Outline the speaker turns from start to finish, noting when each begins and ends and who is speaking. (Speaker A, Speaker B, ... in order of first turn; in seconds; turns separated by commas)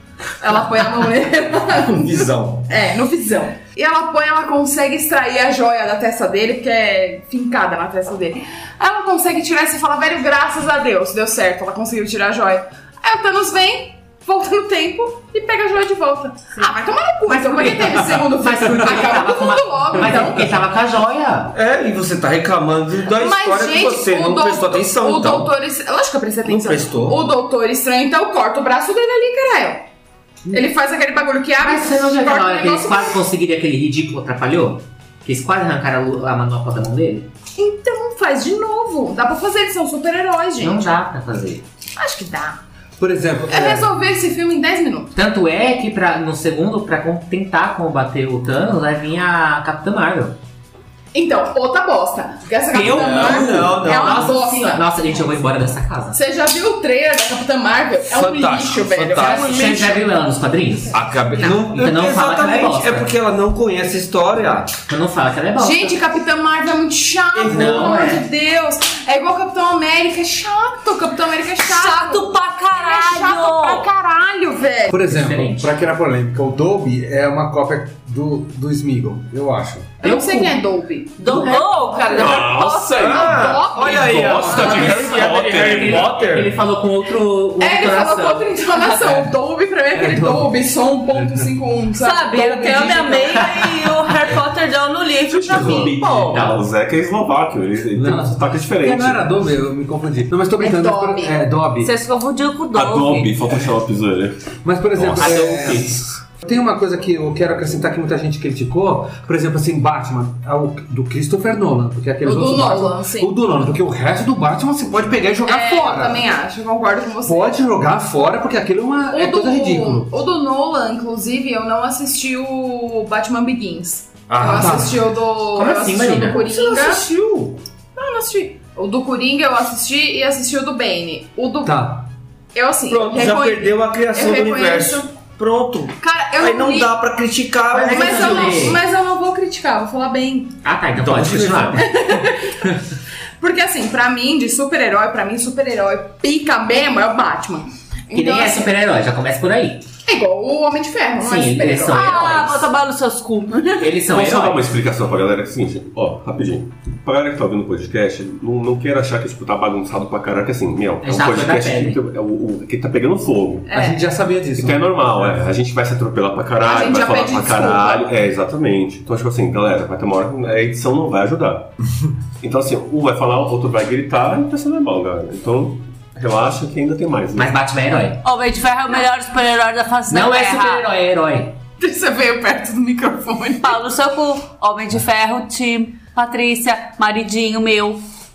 Speaker A: 0.4-20.5, Speaker B: 1.7-2.7, Speaker C: 17.3-21.5, Speaker B: 21.5-25.5, Speaker A: 23.1-29.8, Speaker B: 26.4-27.2, Speaker A: 30.5-33.2, Speaker C: 31.6-37.3, Speaker A: 37.6-40.8, Speaker C: 40.6-41.6, Speaker A: 42.0-42.6, Speaker D: 43.0-43.9, Speaker A: 43.5-45.1, Speaker C: 45.1-50.4, Speaker A: 51.1-54.8, Speaker C: 52.7-56.2, Speaker B: 52.8-54.4, Speaker A: 56.1-59.5, Speaker B: 58.1-60.0, Speaker C: 59.2-63.1, Speaker B: 60.9-64.8, Speaker C: 64.9-66.0, Speaker A: 65.6-75.0, Speaker C: 67.3-68.2, Speaker B: 67.5-67.8, Speaker E: 71.6-73.8, Speaker D: 74.9-80.0, Speaker C: 75.1-75.7, Speaker A: 80.0-84.9, Speaker C: 80.0-80.6, Speaker E: 81.2-83.2, Speaker C: 81.3-81.5, Speaker F: 82.1-86.2, Speaker B: 83.0-86.5, Speaker C: 84.5-88.5, Speaker A: 87.6-93.6, Speaker E: 88.7-89.0, Speaker D: 89.9-90.5, Speaker D: 91.1-91.5, Speaker E: 92.0-96.5, Speaker F: 95.3-99.3, Speaker D: 95.5-95.8, Speaker C: 96.3-96.6, Speaker D: 97.9-101.9, Speaker A: 100.6-101.4, Speaker E: 101.8-103.3, Speaker F: 102.7-105.8, Speaker D: 104.6-116.2, Speaker C: 105.2-105.9, Speaker A: 112.2-113.3, Speaker A: 115.5-117.5, Speaker D: 117.2-120.1, Speaker A: 119.1-127.0, Speaker B: 124.3-124.9, Speaker D: 124.4-125.0, Speaker C: 125.5-126.5, Speaker B: 126.2-127.6, Speaker A: 127.9-132.0, Speaker D: 131.6-132.1, Speaker A: 132.5-135.1, Speaker B: 132.9-138.7, Speaker A: 136.0-136.9, Speaker C: 137.7-138.8, Speaker A: 137.9-140.6, Speaker C: 140.6-141.9, Speaker B: 140.9-141.8, Speaker A: 141.8-142.7, Speaker A: 143.4-148.7, Speaker C: 148.1-149.8, Speaker A: 150.1-152.4, Speaker C: 151.2-152.7, Speaker E: 151.9-153.8, Speaker C: 153.8-154.6, Speaker F: 154.1-163.7, Speaker C: 161.0-162.0, Speaker A: 163.7-164.1, Speaker D: 163.7-165.4, Speaker F: 164.6-171.7, Speaker A: 166.6-168.1, Speaker F: 172.4-177.6, Speaker C: 177.3-178.2, Speaker E: 178.2-180.8, Speaker C: 180.1-181.5, Speaker A: 181.8-183.8, Speaker E: 183.6-188.0